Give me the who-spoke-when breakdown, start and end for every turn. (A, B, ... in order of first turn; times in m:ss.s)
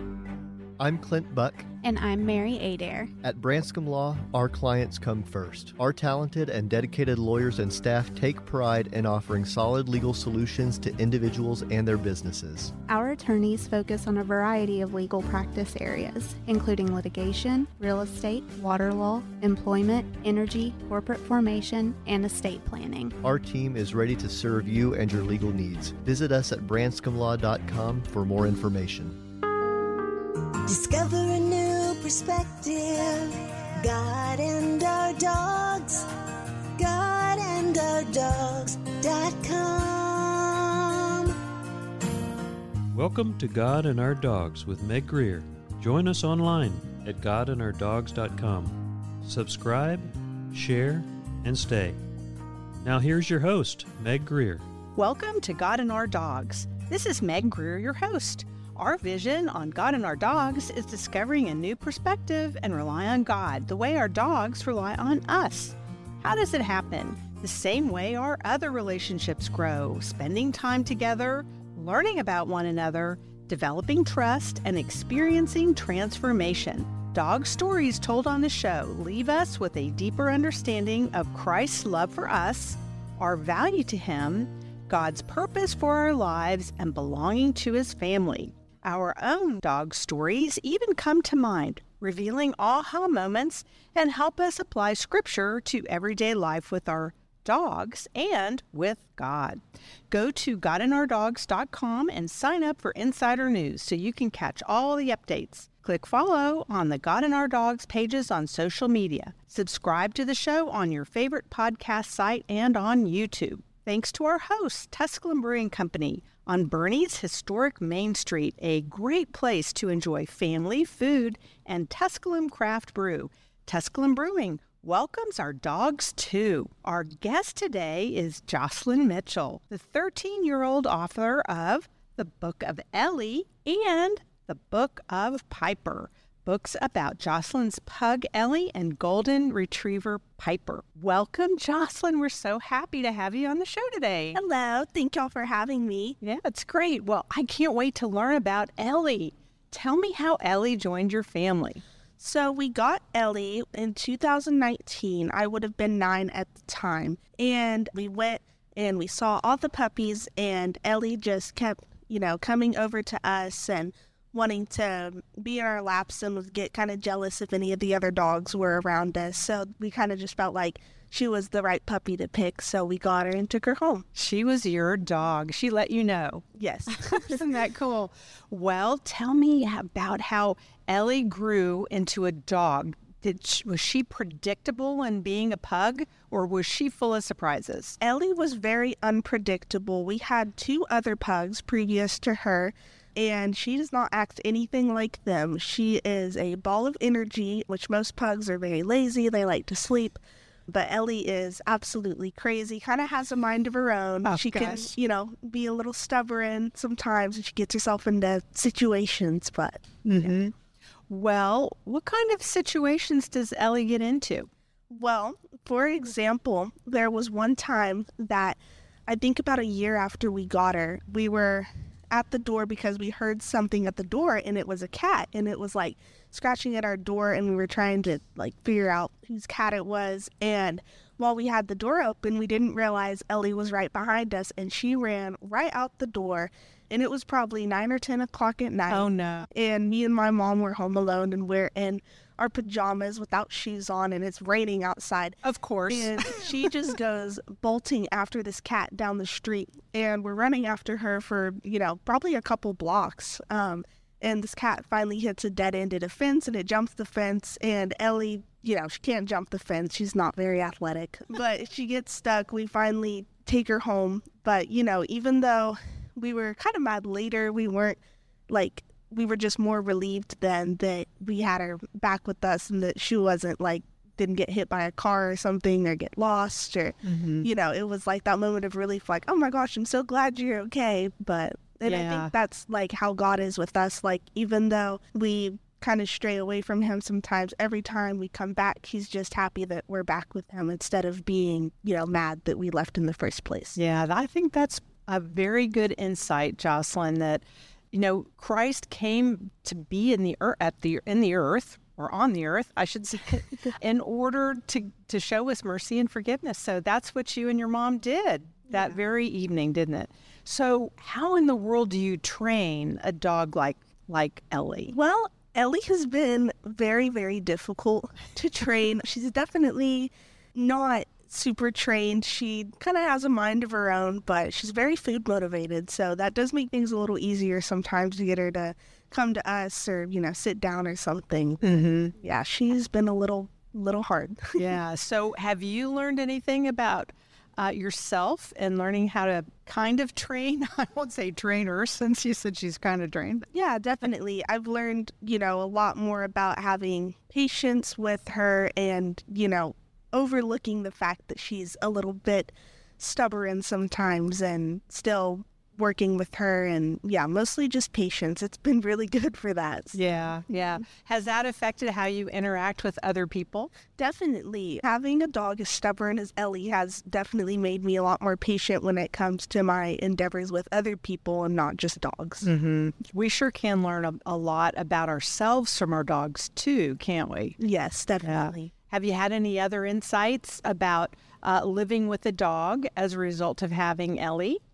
0:00.8-0:01.7 A
0:01.8-0:03.1 B
0:03.2-0:12.7 A
0:12.9-0:23.2 B
0:23.2-0:29.2 A
0:30.7-0:36.1 C
0:36.8-0:41.4 C
0:42.9-0:52.0 D
0:52.8-0:54.7 D
0:55.0-2:24.4 E
2:24.4-2:26.2 F
2:26.2-2:31.8 E
2:32.2-2:54.0 F
2:54.2-3:08.0 E
2:56.6-2:57.4 F
3:08.0-3:30.4 F
3:24.2-3:24.9 E
3:30.0-3:30.5 E
3:31.1-3:34.5 E
3:34.9-4:28.0 F
3:58.9-3:59.5 E
4:05.4-4:06.5 E
4:28.5-4:53.8 F
4:37.0-4:37.5 E
4:41.8-4:42.3 E
4:53.8-5:15.0 E
5:08.7-5:09.0 F
5:14.9-5:34.7 F
5:31.6-5:32.1 E
5:34.6-5:43.5 E
5:43.5-6:00.0 F
5:59.9-6:03.7 E
6:04.0-6:12.5 F
6:12.4-6:17.6 E
6:17.6-6:18.7 F
6:18.2-6:24.6 E